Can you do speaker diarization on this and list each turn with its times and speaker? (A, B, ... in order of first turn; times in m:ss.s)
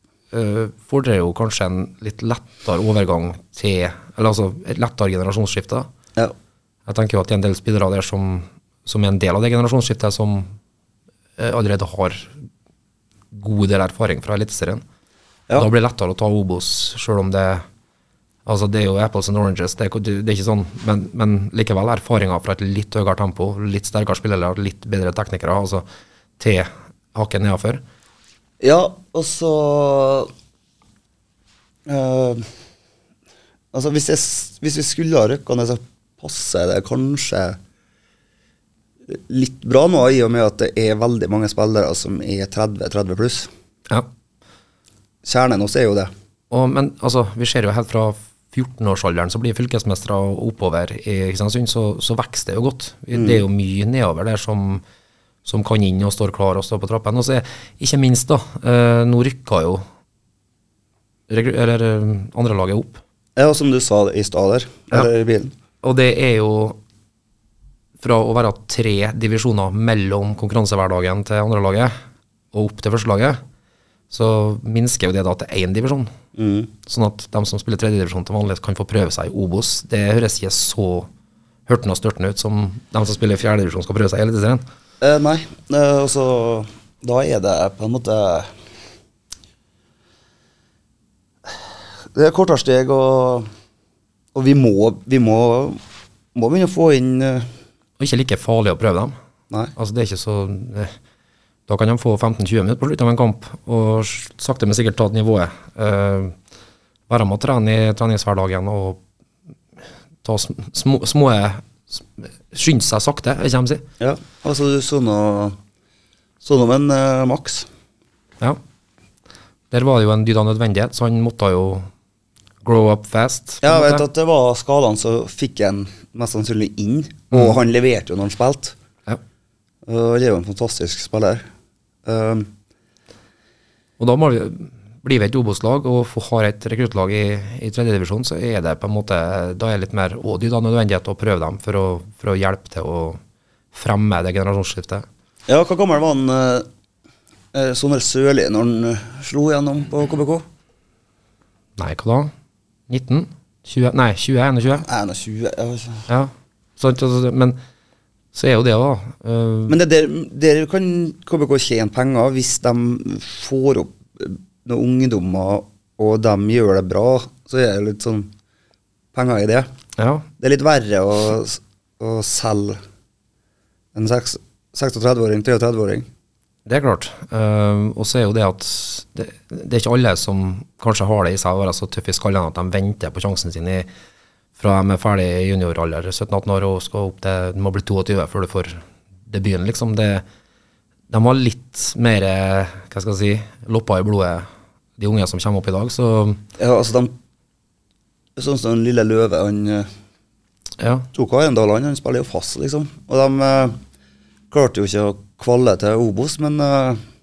0:00.3-0:05.9 A
0:06.9-0:10.5 A
0:11.4-0:12.3 A
0:13.3-0:14.8 A
0:15.6-0:17.6 A
0:18.5-0:25.8 A
0:26.4-0:27.8 A
0:28.6-0:30.3 B
0:31.9-0:32.4 B
0:33.7-0:37.6 B
0:39.1-0:43.5 B
0:45.2-0:46.1 B
0:46.5-0:54.8 A
0:53.1-0:53.4 B
0:55.4-0:59.8 A
1:01.3-1:03.0 A
1:03.4-1:05.5 B
1:05.8-1:06.8 A
1:08.0-1:11.9 A
1:12.5-1:13.4 A
1:14.1-1:16.1 A
1:16.4-1:16.7 B
1:16.9-1:21.1 A
1:21.7-1:24.6 A
1:25.0-1:28.5 B
1:32.2-1:33.5 B
1:34.4-1:35.8 B
1:36.4-1:37.5 B
1:38.0-1:39.2 A
1:39.8-1:40.9 A
1:41.7-1:46.4 A
1:47.1-1:49.0 A
1:50.2-1:53.8 A
1:54.0-1:55.6 B
1:56.4-1:57.7 B
1:59.7-2:01.9 A
2:02.6-2:04.0 A
2:03.6-2:08.8 B
2:09.9-2:11.4 B
2:12.0-2:12.5 B
2:14.0-2:23.2 A
2:23.7-2:25.1 A
2:25.5-2:26.7 B
2:27.5-2:30.4 B
2:31.8-2:32.3 A
2:32.9-2:34.9 A
2:34.8-2:36.1 B
2:36.1-2:37.6 A
2:38.3-2:39.8 A
2:39.7-2:48.3 B
2:49.1-2:49.7 B
2:50.0-2:50.3 A
2:50.4-2:52.8 B
2:54.0-2:56.1 B
2:56.7-3:03.9 A
3:04.6-3:10.2 A
3:11.1-3:14.5 A
3:15.0-3:16.4 A
3:16.6-3:17.2 B
3:18.4-3:19.9 B
3:20.8-3:21.1 A
3:21.1-3:23.8 B
3:24.5-3:27.0 B